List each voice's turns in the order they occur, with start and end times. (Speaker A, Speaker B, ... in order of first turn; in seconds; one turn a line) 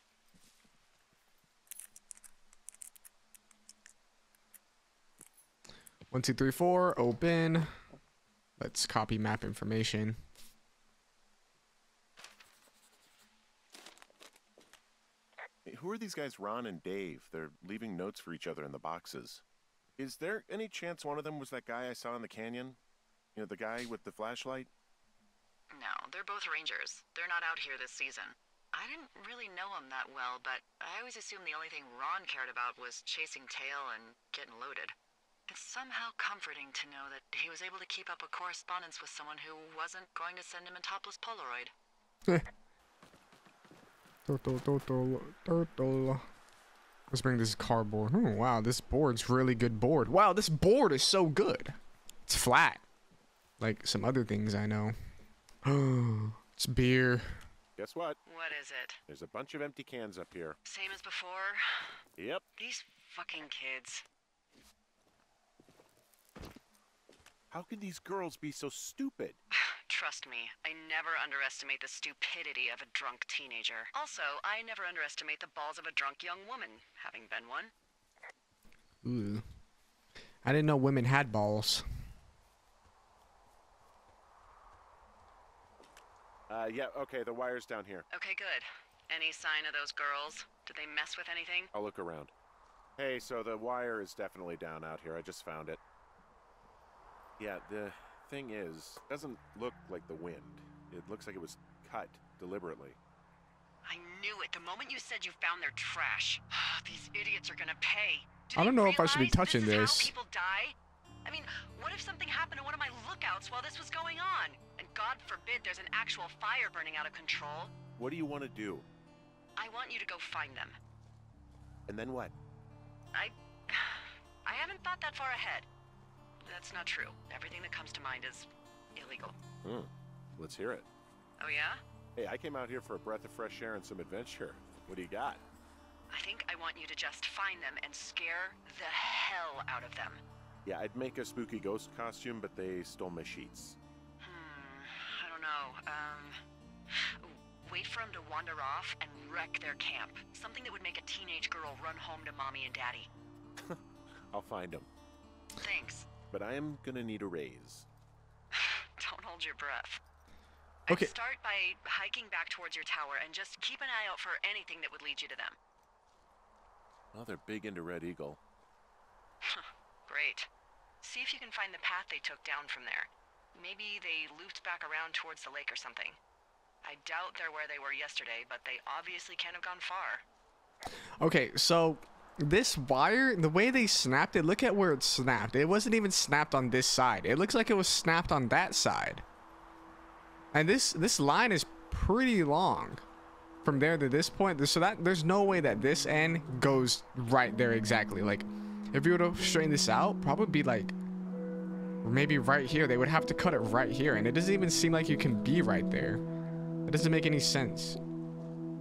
Speaker A: 6.1-7.7
Speaker A: 8.6-10.2
Speaker B: 15.7-19.4
Speaker B: 20.0-22.8
Speaker B: 23.4-24.7
Speaker C: 25.7-35.0
Speaker C: 35.5-41.7
Speaker A: 44.2-46.2
Speaker A: 47.1-51.8
Speaker A: 52.3-52.8
Speaker A: 53.6-54.9
Speaker A: 55.7-57.4
Speaker B: 57.8-58.2
Speaker C: 58.2-59.0
Speaker B: 59.1-60.6
Speaker C: 60.6-62.0
Speaker B: 62.2-62.5
Speaker C: 62.6-64.0
Speaker B: 67.5-69.4
Speaker C: 69.5-77.7
Speaker A: 79.0-79.4
Speaker A: 80.4-81.8
Speaker B: 86.5-88.0
Speaker C: 88.1-91.7
Speaker B: 91.7-92.3
Speaker B: 93.0-95.8
Speaker B: 97.4-103.0
Speaker C: 103.8-117.7
Speaker A: 108.6-110.1
Speaker B: 118.0-118.9
Speaker C: 119.6-120.8
Speaker B: 121.9-122.3
Speaker C: 123.1-125.7
Speaker C: 126.5-129.4
Speaker B: 129.6-130.9
Speaker C: 131.4-131.8
Speaker B: 132.2-135.4
Speaker C: 136.1-140.2
Speaker B: 140.6-143.8
Speaker C: 144.2-146.4
Speaker C: 146.9-153.1
Speaker B: 154.3-154.9
Speaker C: 155.6-156.1
Speaker B: 156.3-157.9
Speaker C: 158.5-160.0
Speaker C: 160.9-165.6
Speaker B: 167.1-168.4
Speaker C: 169.4-170.5
Speaker C: 171.0-176.2
Speaker C: 176.8-180.2
Speaker A: 181.2-189.2
Speaker A: 190.5-193.0
Speaker A: 193.6-200.9
Speaker A: 202.0-206.2
Speaker A: 206.9-208.0